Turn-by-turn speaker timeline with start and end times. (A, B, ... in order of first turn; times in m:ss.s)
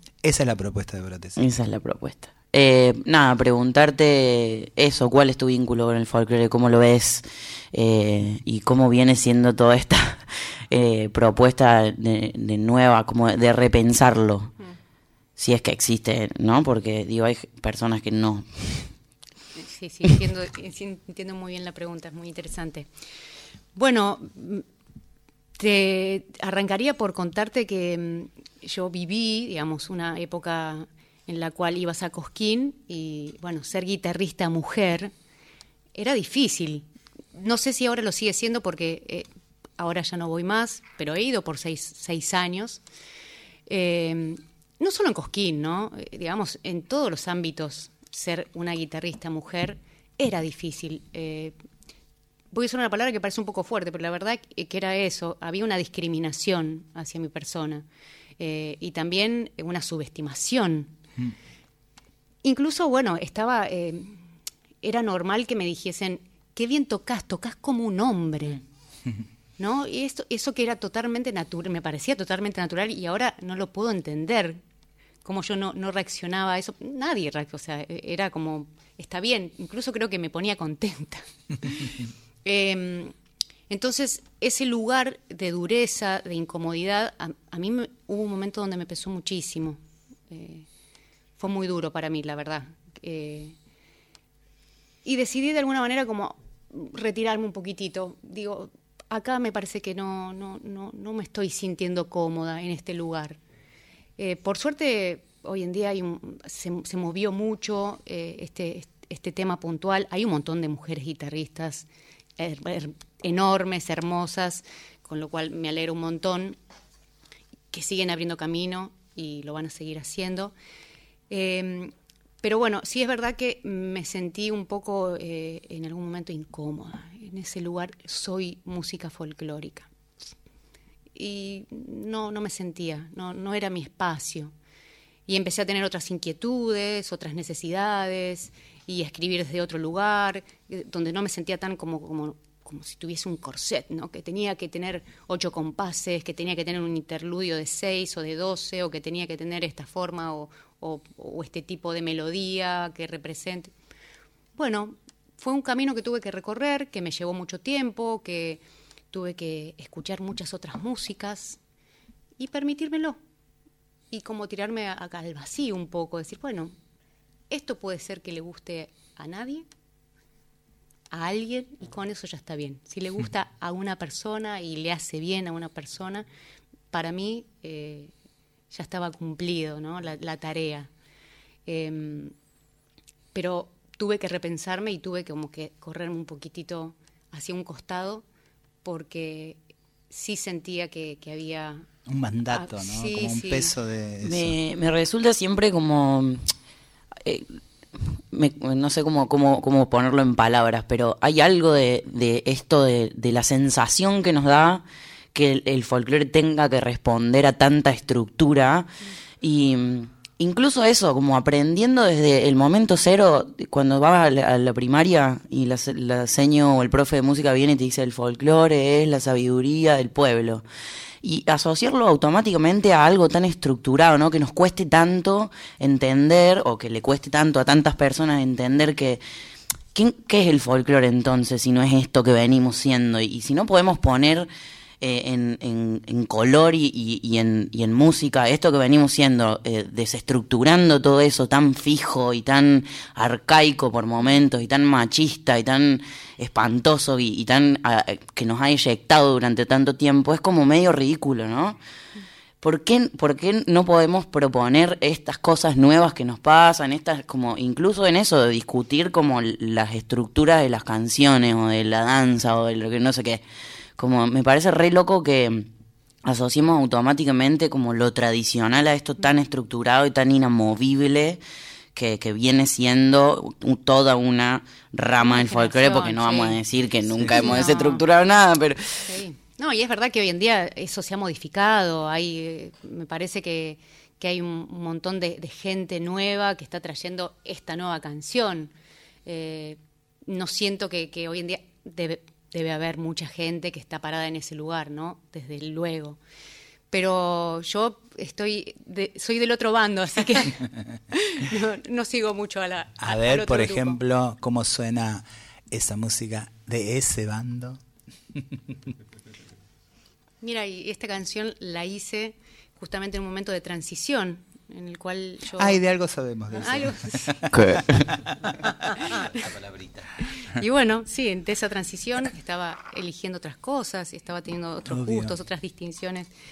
0:00.2-0:01.4 A
0:01.4-0:14.5 B
0:15.4-0:18.5 B
0:19.6-0:22.9 C
0:23.8-0:24.6 C
0:25.6-0:35.1 C
0:36.0-0:42.8 C
0:43.7-0:51.6 C
0:52.5-0:57.9 C
0:58.4-1:01.0 C
1:02.4-1:04.2 C
1:04.8-1:08.6 C
1:09.6-1:14.6 C
1:15.2-1:21.2 C
1:22.4-1:23.1 C
1:23.7-1:30.7 C
1:31.4-1:33.6 C
1:35.0-1:43.4 C
1:44.2-1:51.9 C
1:52.4-1:56.6 C
1:57.7-2:00.5 C
2:01.3-2:01.9 C
2:02.4-2:09.9 C
2:11.2-2:14.5 C
2:15.3-2:33.7 C
2:34.6-2:41.6 C
2:42.4-2:43.2 C
2:44.1-2:46.7 C
2:47.5-2:49.7 C
2:51.1-2:56.3 C
2:56.9-2:58.1 C
2:58.7-3:00.9 C
3:01.7-3:02.3 C
3:03.3-3:08.2 C
3:08.8-3:11.9 C
3:12.1-3:14.6 A
3:12.5-3:13.7 C
3:14.2-3:16.5 B
3:17.2-3:17.6 B
3:18.2-3:28.9 B
3:29.4-3:40.6 B
3:41.2-3:49.2 B
3:49.9-3:54.5 B
3:55.0-4:11.8 B
4:12.6-4:23.4 B
4:24.0-4:25.7 B
4:26.2-4:31.4 B
4:32.0-4:39.1 B
4:35.2-4:36.6 C
4:37.2-4:37.5 A
4:37.3-4:38.0 C
4:39.0-4:48.7 C
4:49.3-4:56.2 C
4:56.9-5:04.0 C
5:03.0-5:07.8 A
5:10.4-5:15.8 C
5:15.6-5:18.6 A
5:16.6-5:17.4 C
5:17.5-5:18.1 B
5:19.0-5:19.4 C
5:20.3-5:26.3 C
5:24.9-5:25.4 A